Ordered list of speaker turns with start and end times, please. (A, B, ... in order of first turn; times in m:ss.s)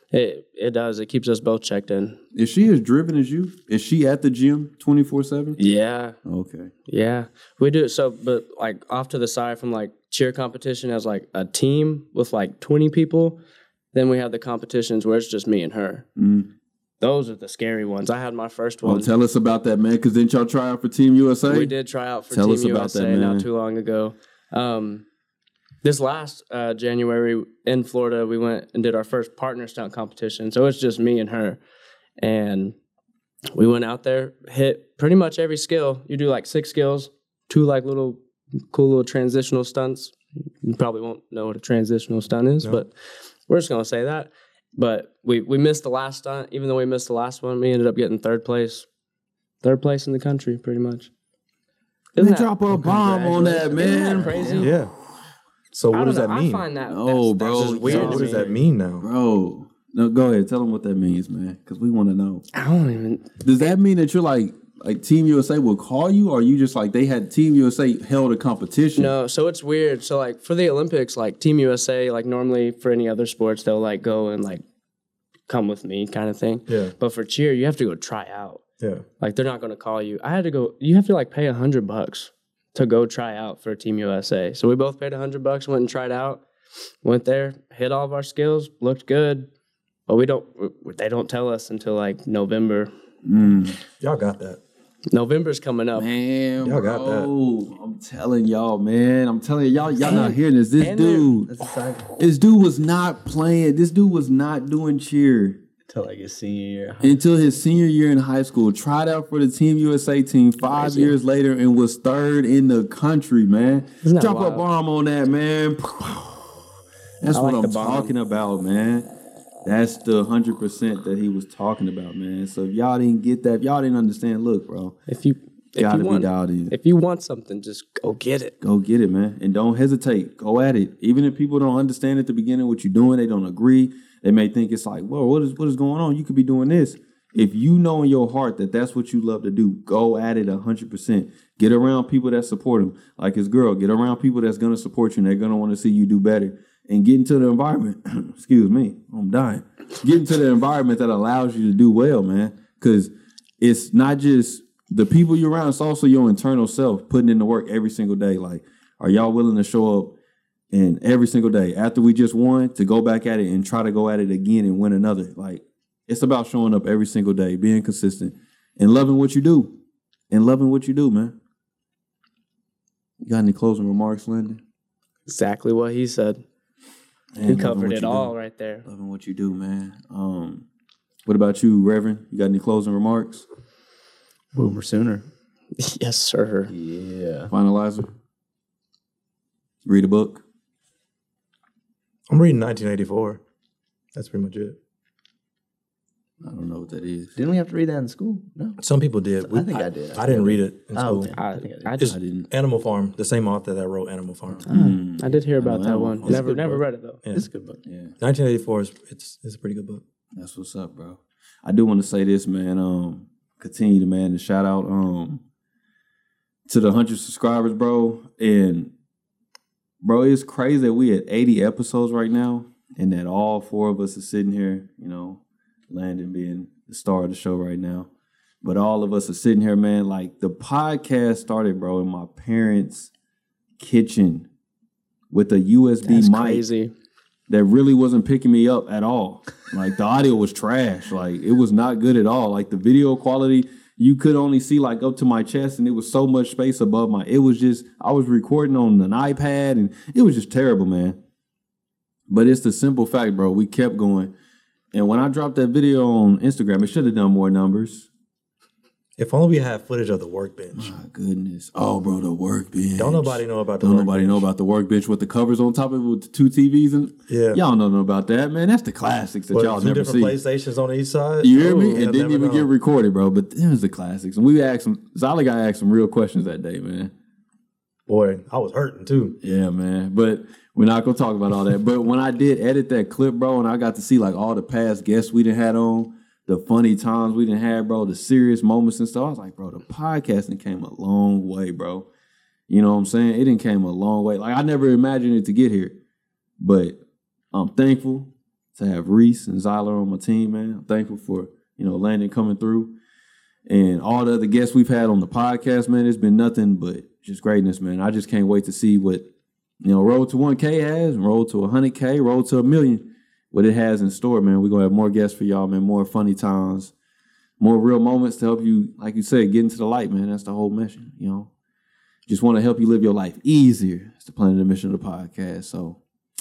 0:00.1-0:02.2 A
0:02.3-0:05.6 B
0:05.6-0:06.2 A
0:06.2-0:06.7 B
0:06.9-0:13.4 A
0:13.9-0:16.0 A
0:16.2-0:16.5 B
0:17.0-0:19.1 A
0:18.8-0:21.7 B
0:21.5-0:25.0 A
0:22.3-0:23.5 B
0:25.8-0:31.6 A
0:32.2-0:32.7 A
0:33.5-0:38.2 A
0:38.7-0:42.9 A
0:43.5-0:48.8 A
0:49.6-0:51.1 A
0:52.2-0:54.6 B
0:52.2-0:52.5 A
0:52.7-0:54.7 C
0:53.7-0:54.7 A
0:54.6-0:54.9 D
0:55.7-0:56.6 D
0:55.9-0:58.6 A
0:56.9-1:02.4 B
0:57.5-0:59.0 D
1:02.5-1:03.7 A
1:03.4-1:09.1 B
1:09.0-1:14.6 A
1:15.5-1:18.6 A
1:16.7-1:16.9 D
1:19.2-1:26.4 A
1:27.0-1:29.5 A
1:30.1-1:32.9 A
1:33.2-1:33.8 B
1:34.0-1:34.6 D
1:35.1-1:36.1 A
1:35.9-1:41.5 B
1:36.6-1:37.3 D
1:40.0-1:41.4 A
1:40.0-1:40.4 C
1:41.5-1:42.1 C
1:42.2-1:45.6 B
1:45.9-1:47.2 C
1:47.0-1:56.6 B
1:50.6-1:51.2 A
1:54.0-1:54.6 A
1:57.2-1:59.1 B
1:57.3-1:58.1 A
1:59.6-2:04.9 B
2:05.1-2:08.5 A
2:05.8-2:06.7 B
2:08.6-2:40.1 B
2:40.7-2:49.7 B
2:50.3-2:51.4 B
2:53.2-2:54.6 B
2:55.3-2:56.4 A
2:57.4-2:58.3 B
2:57.5-2:58.8 A
2:58.8-3:00.6 B
3:01.2-3:03.4 B
3:04.5-3:05.2 C
3:05.8-3:06.7 A
3:06.7-3:07.5 C
3:07.5-3:08.1 B
3:09.8-3:10.4 B
3:12.3-3:13.4 D
3:14.1-3:14.8 D
3:16.4-3:17.4 B
3:17.4-3:18.8 C
3:18.8-3:21.3 D
3:19.4-3:22.0 C
3:21.4-3:22.1 A
3:22.0-3:24.6 D
3:22.0-3:22.5 B
3:24.6-3:26.5 B
3:24.7-3:27.2 A
3:26.2-3:27.8 C
3:27.8-3:28.1 B
3:28.2-3:30.0 D
3:30.4-3:35.4 B
3:36.7-3:38.9 B
3:40.0-3:48.1 B
3:48.6-3:53.1 B
3:53.8-3:54.5 B
3:55.3-3:56.6 B
3:56.0-3:56.9 A
3:57.5-4:11.2 B
4:12.3-4:14.3 B
4:14.9-4:18.1 B
4:19.2-4:20.9 D
4:20.7-4:30.4 B
4:23.0-4:24.5 D
4:27.3-4:27.6 D
4:29.5-4:32.7 D
4:31.4-4:37.1 B
4:38.1-4:39.4 D
4:39.4-4:52.1 B
4:52.7-4:56.0 B
4:56.6-4:57.0 B
4:57.5-5:02.9 B
5:03.7-5:09.3 B
5:09.8-5:16.9 B
5:17.6-5:21.5 B
5:22.3-5:26.0 B